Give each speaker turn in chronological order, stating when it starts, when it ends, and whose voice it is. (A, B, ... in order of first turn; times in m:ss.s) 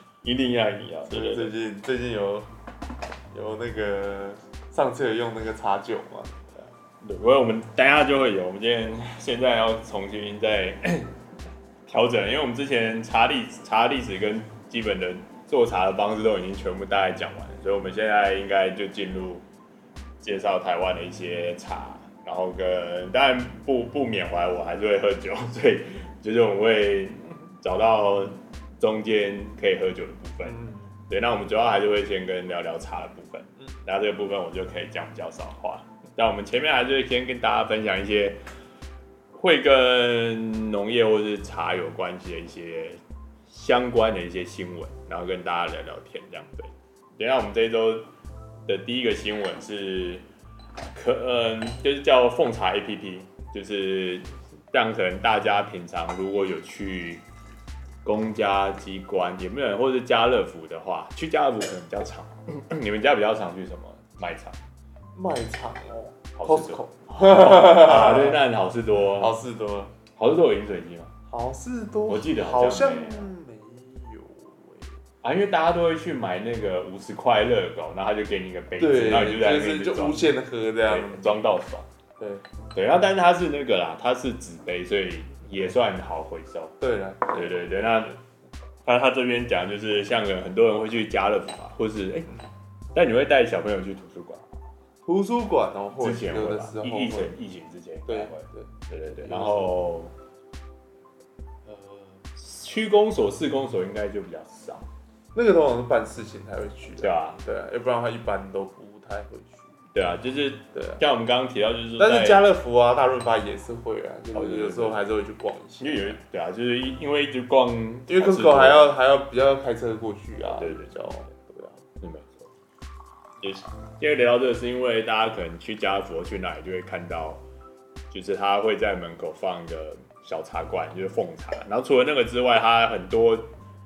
0:00.2-0:01.5 A
0:01.1-0:02.5 B
0:03.3-0:06.7 B
0:07.0-0:11.2 A
0:11.9-0:19.4 A
0:20.2-0:30.6 A
0:30.4-0:31.0 B
0:31.1-0:38.4 A
0:39.3-0:48.1 A
0:48.7-0:50.2 A
0:50.9-0:57.2 A
0:58.0-1:04.6 A
1:05.2-1:08.4 B
1:06.4-1:09.4 A
1:09.0-1:09.9 B
1:10.1-1:11.1 A
1:11.3-1:15.0 B
1:12.1-1:13.3 A
1:15.2-1:20.3 A
1:18.8-1:21.4 B
1:20.9-1:21.9 A
1:22.2-1:22.4 B
1:22.7-1:26.8 A
1:26.8-1:27.6 B
1:27.3-1:28.2 A
1:28.8-1:32.4 A
1:33.0-1:34.5 A
1:35.0-1:37.4 B
1:36.0-1:40.1 A
1:38.1-1:39.8 B
1:41.7-1:42.0 B
1:42.4-1:44.9 A
1:45.4-1:49.8 B
1:47.0-1:47.4 A
1:49.9-1:52.5 A
1:50.7-1:51.0 B
1:52.0-1:56.2 B
1:54.3-1:55.0 A
1:55.8-1:58.9 A
1:58.1-2:01.8 B
2:00.4-2:01.3 A
2:02.0-2:02.5 A
2:03.4-2:07.4 A
2:08.1-2:13.5 A